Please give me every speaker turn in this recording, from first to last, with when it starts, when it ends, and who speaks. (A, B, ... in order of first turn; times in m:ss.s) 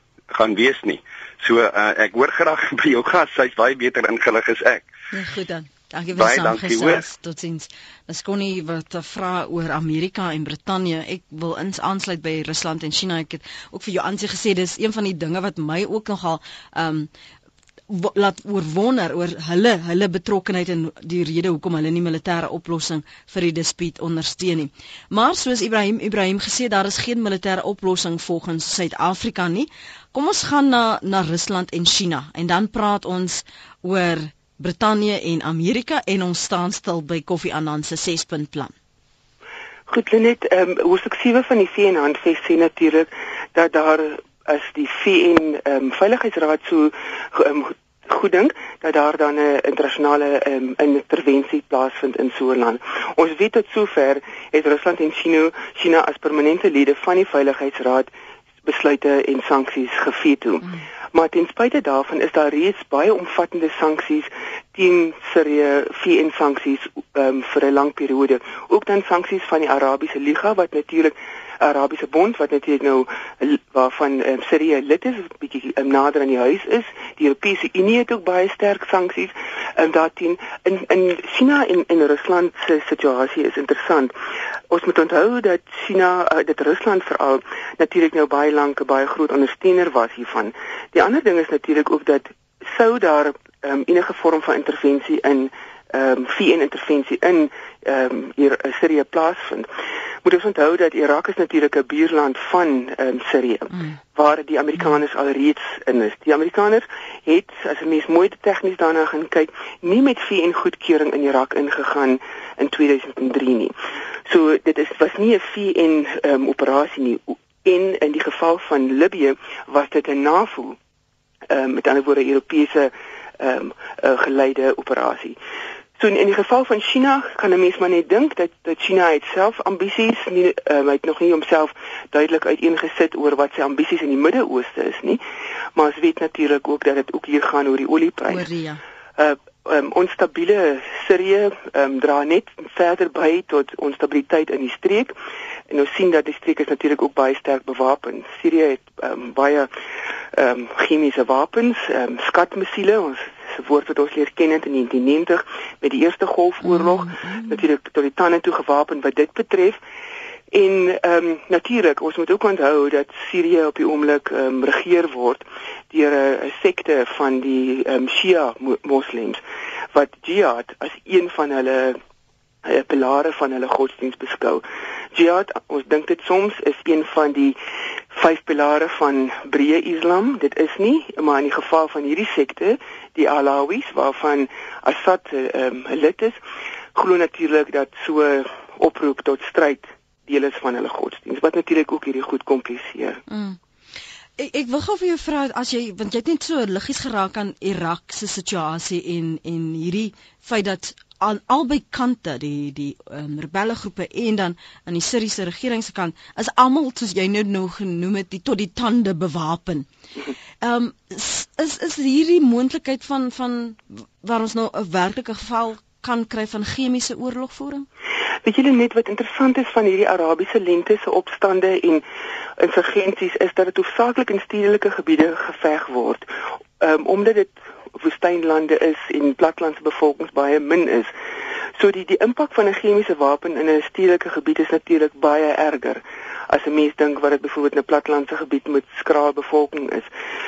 0:00.3-0:04.9 A
0:05.1-0:17.1 B
0:06.2-0:07.0 A
0:17.9-0:38.7 B
0:39.9-0:58.1 C
0:58.6-1:24.1 C
1:24.7-1:39.7 C
1:40.2-1:53.7 C
1:54.3-2:00.8 C
2:01.5-2:05.4 C
2:06.0-2:15.2 C
2:15.8-2:18.4 C
2:18.3-2:18.8 B
2:19.2-2:25.1 C
2:25.7-2:29.7 C
2:30.3-2:39.8 C
2:36.7-2:37.6 B
2:40.5-2:49.4 C
2:49.9-2:52.0 C
2:52.6-2:54.6 C
2:55.1-2:57.6 C
2:58.1-3:06.4 C
3:06.9-3:13.2 C
3:13.3-3:13.6 B
3:14.4-3:29.9 B
3:30.6-3:37.9 B
3:38.4-3:42.0 C
3:42.6-3:46.2 C
3:46.8-3:51.1 C
3:51.8-4:00.1 C